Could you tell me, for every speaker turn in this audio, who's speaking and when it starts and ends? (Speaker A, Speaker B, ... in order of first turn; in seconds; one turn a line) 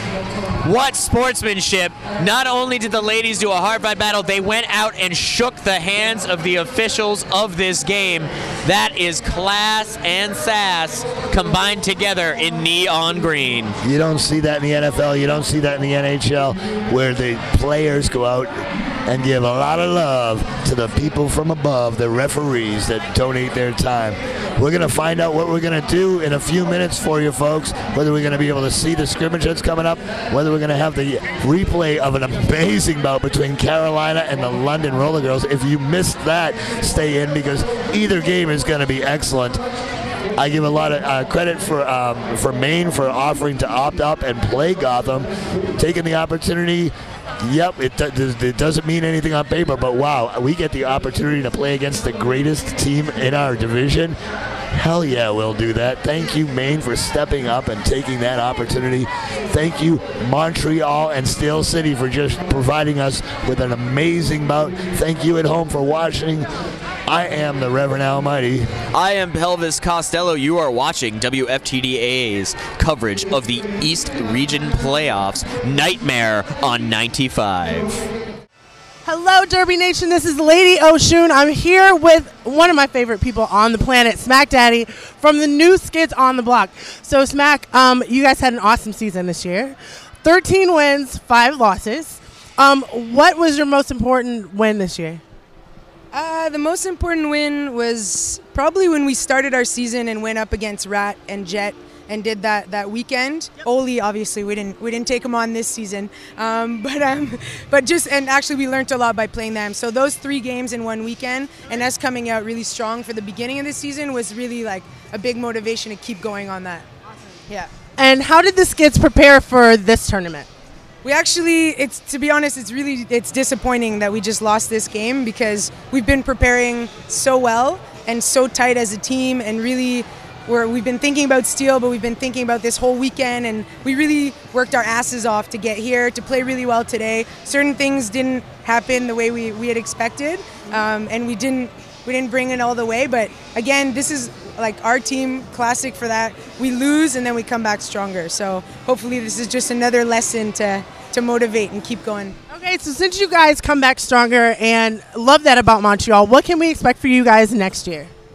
Speaker A: 0.6-13.8
Speaker B: 13.8-39.6
Speaker B: 40.4-46.9
Speaker B: 47.4-54.2
Speaker B: 54.7-66.5
Speaker B: 67.1-68.7
Speaker A: 68.9-78.0
Speaker C: 79.0-95.2
Speaker D: 96.1-116.9
Speaker C: 118.0-120.5
Speaker D: 121.0-152.3
Speaker C: 152.5-158.1